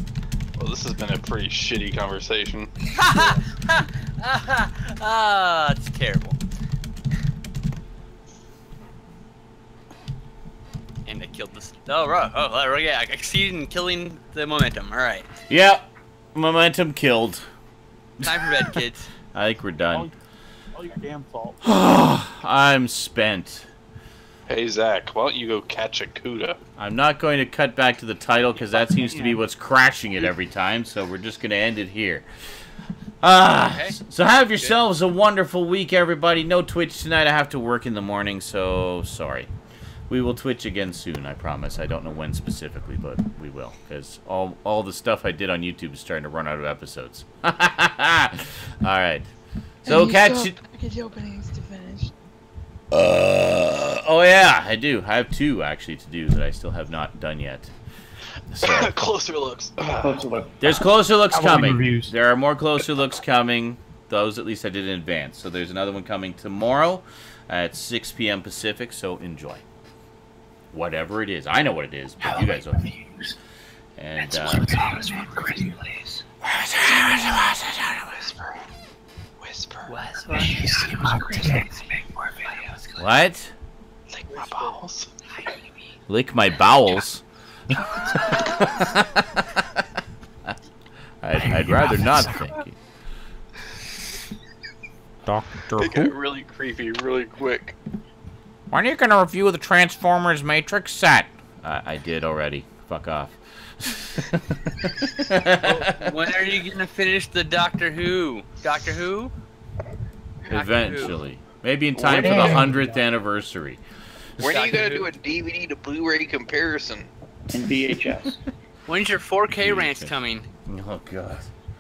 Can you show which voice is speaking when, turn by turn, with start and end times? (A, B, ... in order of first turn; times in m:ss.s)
0:00.6-0:03.4 A
0:02.9-0:06.4 B
0:11.1-0:15.3 B
0:15.5-0:17.4 C
0:18.2-0:18.8 C
0:18.2-0:19.1 B
0:19.3-0:20.1 C
0:20.8-0:21.6 D
0:21.6-0:23.7 C
0:24.5-0:26.6 A
0:26.8-0:32.3 C
0:29.0-0:29.4 D
0:33.2-0:39.5 C
0:33.6-0:34.0 B
0:40.1-0:49.3 C
0:49.8-0:50.6 C
0:49.9-0:52.1 E
0:52.9-0:57.7 C
0:58.5-0:59.0 C
0:58.6-1:00.2 A
0:59.9-1:00.6 F
1:00.6-1:09.6 C
1:01.3-1:02.1 D
1:10.7-1:12.9 C
1:12.8-1:13.3 F
1:14.0-1:14.9 C
1:14.2-1:16.2 F
1:14.9-1:15.6 E
1:16.4-1:18.2 C
1:19.4-1:19.9 A
1:19.9-1:21.2 B
1:20.3-1:21.7 F
1:21.0-1:21.7 D
1:22.2-1:22.6 F
1:23.0-1:23.5 C
1:24.2-1:25.1 A
1:26.1-1:27.2 C
1:28.1-1:29.7 C
1:31.2-1:32.8 C
1:31.6-1:32.5 D
1:35.3-1:36.1 C
1:35.8-1:37.8 A
1:38.7-1:45.8 C
1:45.6-1:49.3 B
1:50.5-1:51.2 B
1:50.5-1:53.8 C
1:52.0-1:52.7 A
1:52.1-1:53.0 D
1:54.4-1:57.1 A
1:54.4-1:55.1 B
1:57.5-1:58.4 F
1:58.9-2:00.5 B
1:59.5-2:00.1 C
2:00.7-2:01.5 C